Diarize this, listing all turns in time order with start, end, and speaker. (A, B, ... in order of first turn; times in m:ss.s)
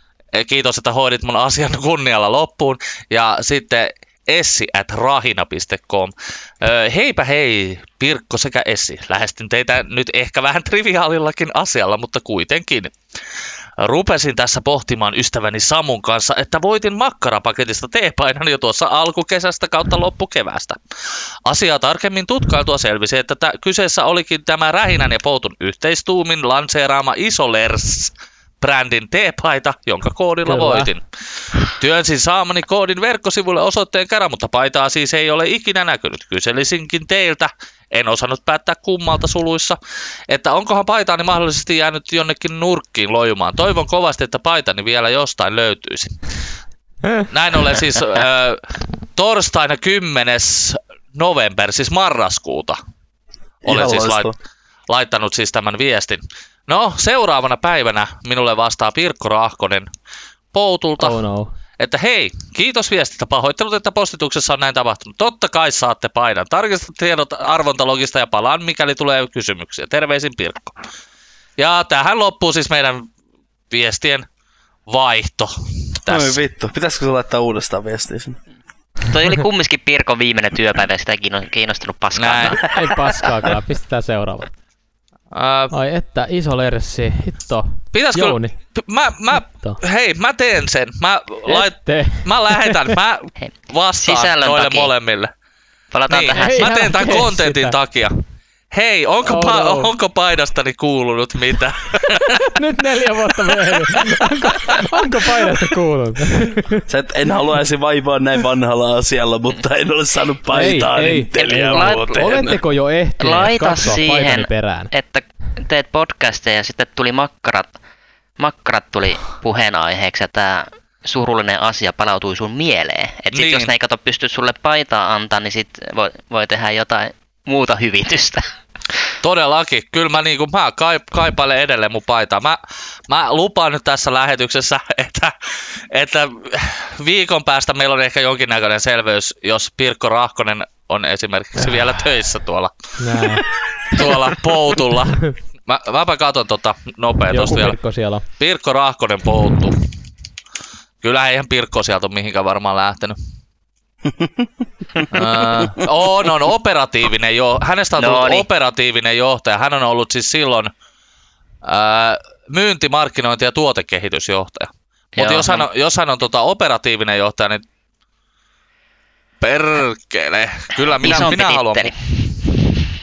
0:00.3-0:12.9 A
0:13.8-0:20.8 A
0:21.4-0:31.0 A
0:30.4-0:30.9 B
0:31.6-0:39.8 A
0:40.3-0:46.2 A
0:47.3-0:48.6 A
0:49.1-0:52.8 A
0:53.6-0:54.3 C
0:53.6-0:54.3 A
0:54.9-0:59.9 A
1:00.5-1:01.2 A
1:01.0-1:01.5 B
1:01.8-1:10.8 A
1:11.6-1:13.1 A
1:13.7-1:14.2 A
1:14.9-1:16.4 A
1:16.1-1:18.4 C
1:19.0-1:22.8 D
1:22.2-1:22.6 A
1:22.7-1:24.5 B
1:25.3-1:25.7 A
1:25.7-1:28.5 B
1:27.9-1:35.3 A
1:29.5-1:29.8 B
1:31.5-1:33.0 B
1:33.4-1:34.9 D
1:35.9-1:36.8 D
1:36.1-1:38.2 A
1:36.3-1:37.8 B
1:38.7-1:42.5 A
1:39.2-1:39.9 B
1:42.1-1:46.8 B
1:43.5-1:44.8 A
1:46.9-1:52.6 C
1:50.5-1:54.9 B
1:51.4-1:52.3 D
1:53.2-1:57.7 D
1:58.4-2:08.4 D
2:03.3-2:03.7 A
2:09.2-2:15.3 A
2:15.9-2:27.8 A
2:23.0-2:23.5 B
2:27.3-2:28.2 B
2:28.4-2:29.8 A
2:31.0-2:33.2 A
2:34.0-2:34.5 C
2:35.1-2:40.7 A
2:35.6-2:35.8 C
2:38.0-2:38.4 D
2:41.6-2:47.6 A
2:45.2-2:45.7 D
2:49.4-2:51.9 A
2:51.0-2:52.5 D